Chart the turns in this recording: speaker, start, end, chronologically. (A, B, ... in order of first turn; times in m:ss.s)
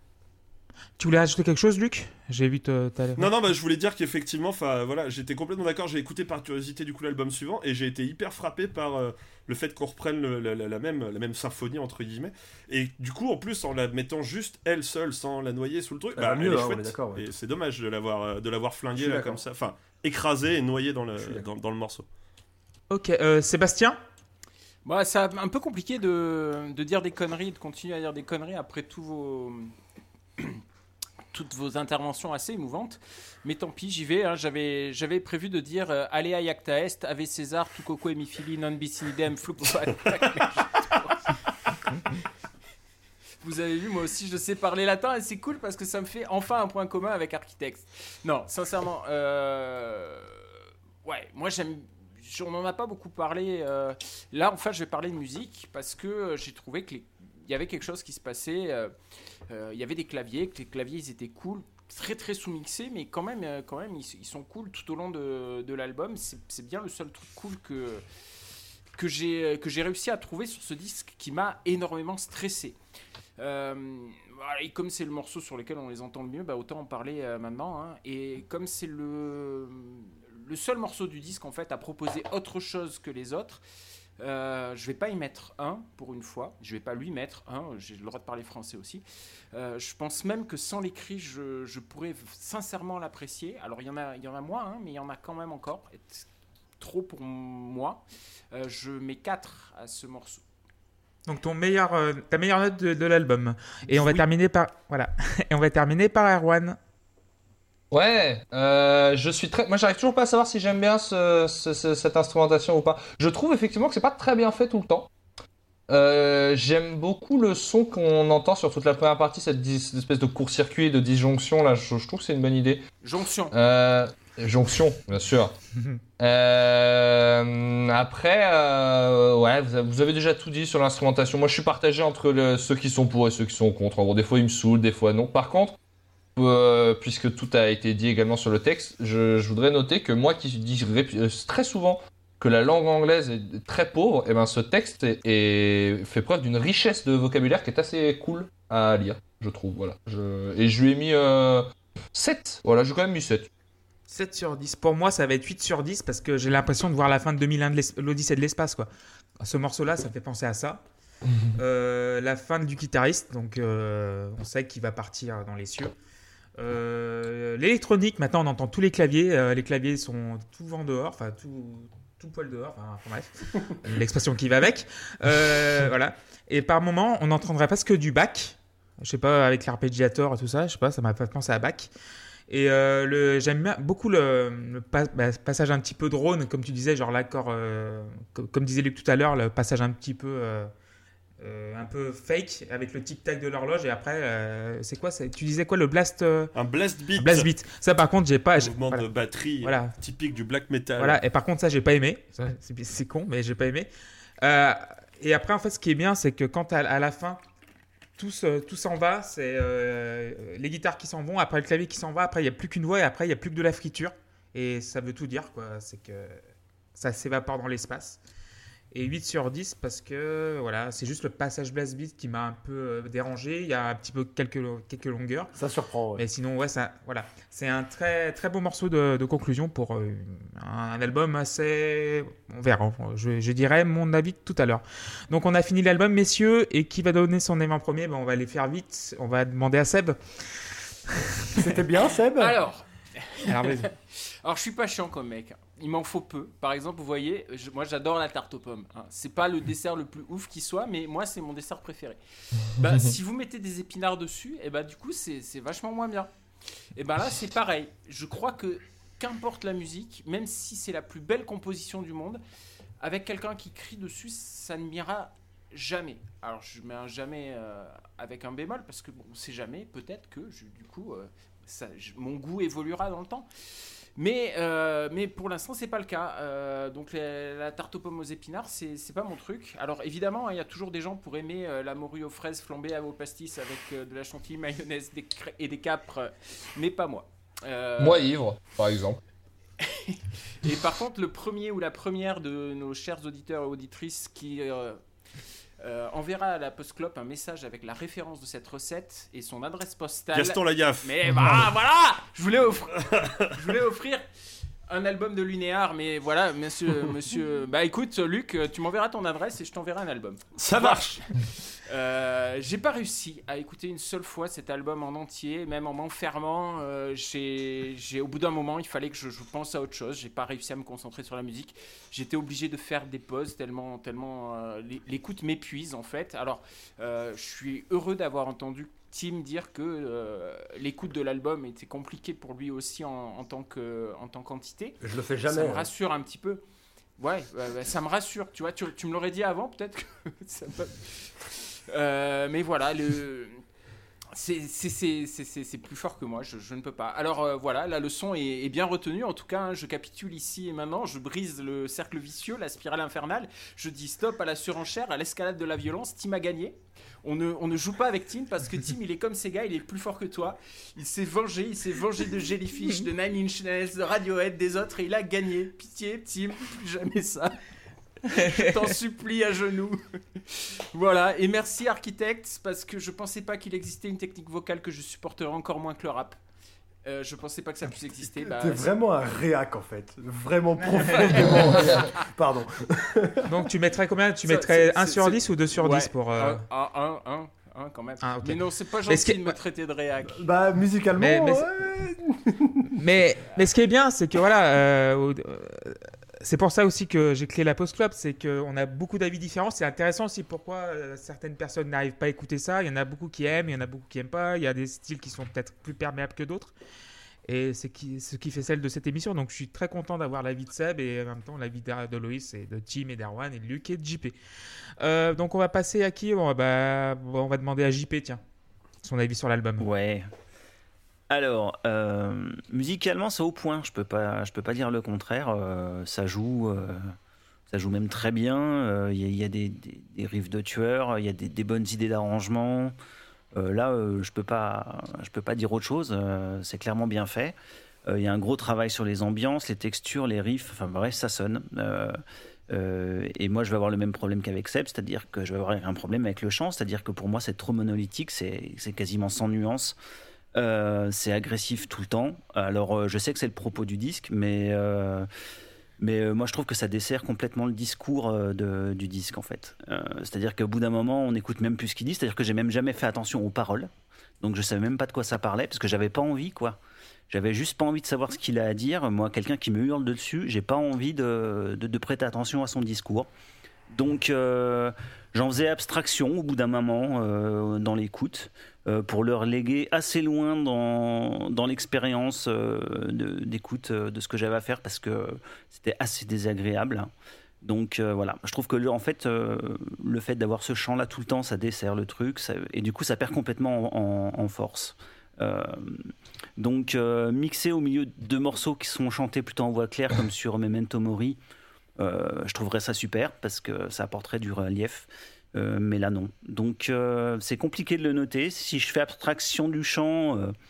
0:01.0-0:03.2 A
0:03.2-0:22.0 B
0:16.1-0:17.2 C
0:18.9-0:19.4 C
0:21.2-0:21.5 C
0:22.9-0:24.0 A
0:24.8-0:29.7 D
0:30.4-0:30.6 D
0:31.3-0:41.7 D
0:43.4-0:50.5 D
0:51.0-0:58.9 D
0:59.5-1:08.0 D
1:08.9-1:12.8 D
1:13.4-1:23.6 D
1:24.2-1:36.2 D
1:36.8-1:40.4 D
1:41.2-1:46.8 A
1:47.9-1:55.1 E
1:55.9-2:02.8 E
2:03.0-2:03.5 D
2:03.5-2:05.5 E
2:06.2-2:15.8 E
2:16.4-2:33.5 E
2:34.1-2:38.9 A
2:39.4-2:40.8 A
2:41.6-2:45.9 A
2:46.6-3:01.9 A
3:02.5-3:10.7 A
3:11.4-3:16.5 A
3:16.5-3:17.5 B
3:17.2-3:19.0 A
3:18.6-3:21.2 B
3:19.6-3:19.9 A
3:21.0-3:23.9 A
3:24.4-3:27.4 A
3:28.2-3:36.4 A
3:36.9-3:38.2 A
3:38.9-3:45.5 A
3:45.6-3:46.2 C
3:46.2-4:00.2 A
4:01.1-4:01.5 A
4:01.6-4:02.5 C
4:02.4-4:16.3 D
4:03.5-4:03.9 A
4:17.0-4:22.4 D
4:23.0-4:33.5 D
4:34.2-4:48.3 D
4:48.0-4:49.2 E
4:49.8-4:55.0 D
4:55.8-5:04.2 D
5:00.3-5:01.1 B
5:04.9-5:36.6 D
5:10.6-5:11.2 B
5:35.0-5:35.9 C
5:37.2-5:43.6 D
5:44.3-6:07.5 D
6:08.3-6:16.4 D
6:08.3-6:08.6 A
6:17.0-6:18.9 D
6:18.4-6:23.5 C
6:23.4-6:26.6 A
6:24.4-6:30.5 D
6:28.2-6:29.6 A
6:30.3-6:32.9 C
6:31.2-6:31.7 A
6:32.9-6:46.7 A
6:47.4-6:54.4 A
6:55.0-6:58.4 A
6:59.0-6:59.8 A
6:59.8-7:00.3 F
7:01.3-7:07.0 F
7:07.7-7:12.9 F
7:13.5-7:17.6 F
7:18.1-7:22.2 F
7:22.7-7:30.0 F
7:30.5-7:35.3 F
7:36.0-7:46.8 F
7:47.3-7:53.3 F
7:53.9-8:07.1 F
8:07.6-8:21.4 F
8:22.0-8:30.5 F